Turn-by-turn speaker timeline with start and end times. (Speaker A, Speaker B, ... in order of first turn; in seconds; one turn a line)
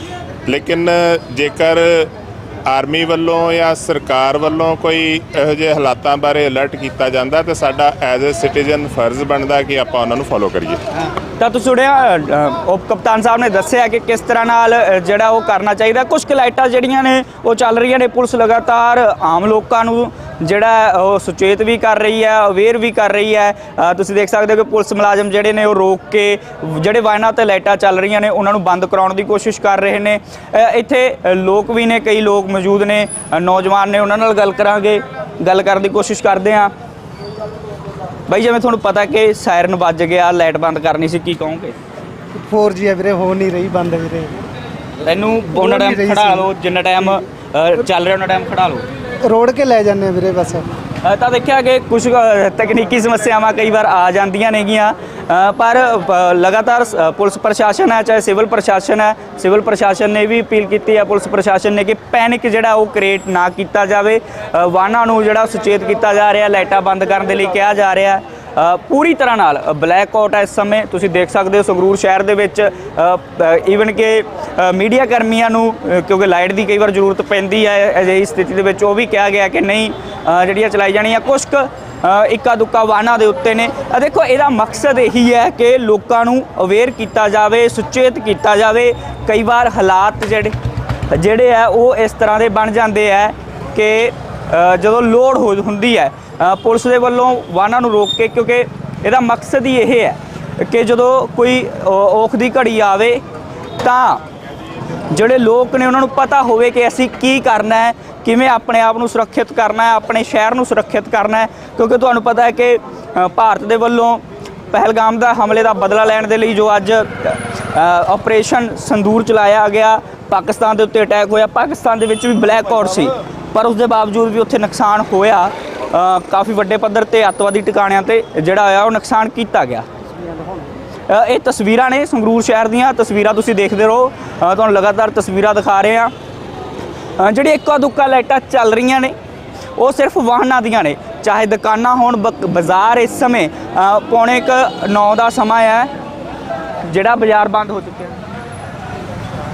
Speaker A: 0.5-2.1
Speaker A: 2.7-10.8
Speaker B: 11.4-36.7
Speaker B: 38.3-41.8
Speaker C: 42.4-44.4
Speaker B: 45.0-48.8
Speaker C: 45.6-46.4
Speaker C: 49.2-50.7
Speaker B: 51.0-90.5
Speaker B: 91.1-103.2
Speaker B: 103.8-104.2
Speaker B: 105.1-129.9
Speaker B: 131.1-136.1
Speaker B: 137.2-139.1
Speaker B: 139.8-145.9
Speaker B: 146.8-148.2